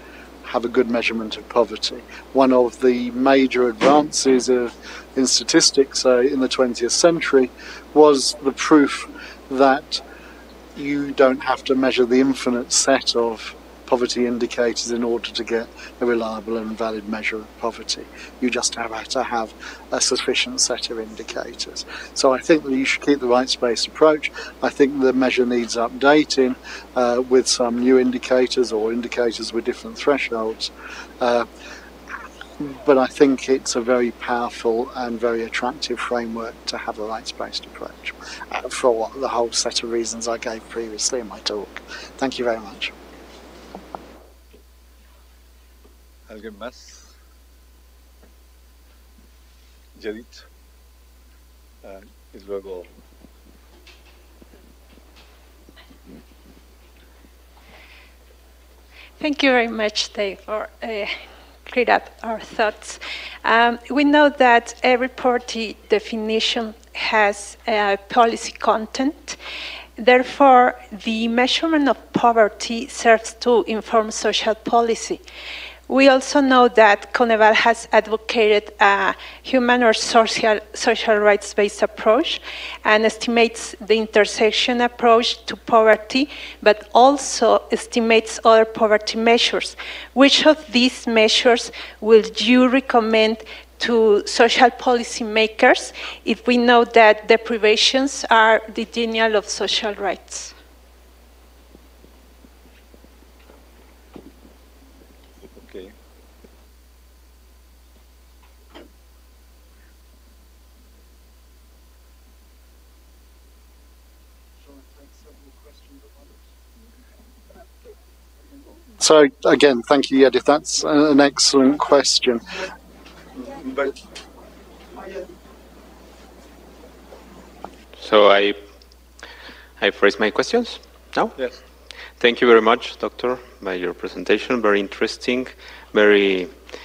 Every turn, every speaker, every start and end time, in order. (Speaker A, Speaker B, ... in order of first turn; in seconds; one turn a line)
Speaker A: 0.4-10.0
Speaker A: 10.8-31.5
Speaker A: 32.6-42.9
Speaker B: 46.3-47.1
Speaker B: 50.0-50.5
Speaker B: 51.8-52.9
Speaker C: 59.2-69.4
Speaker C: 70.0-75.2
Speaker C: 75.9-100.5
Speaker B: 105.6-105.9
Speaker A: 119.0-122.4
Speaker B: 123.4-124.0
Speaker D: 128.0-128.6
Speaker D: 129.8-131.3
Speaker D: 132.2-136.6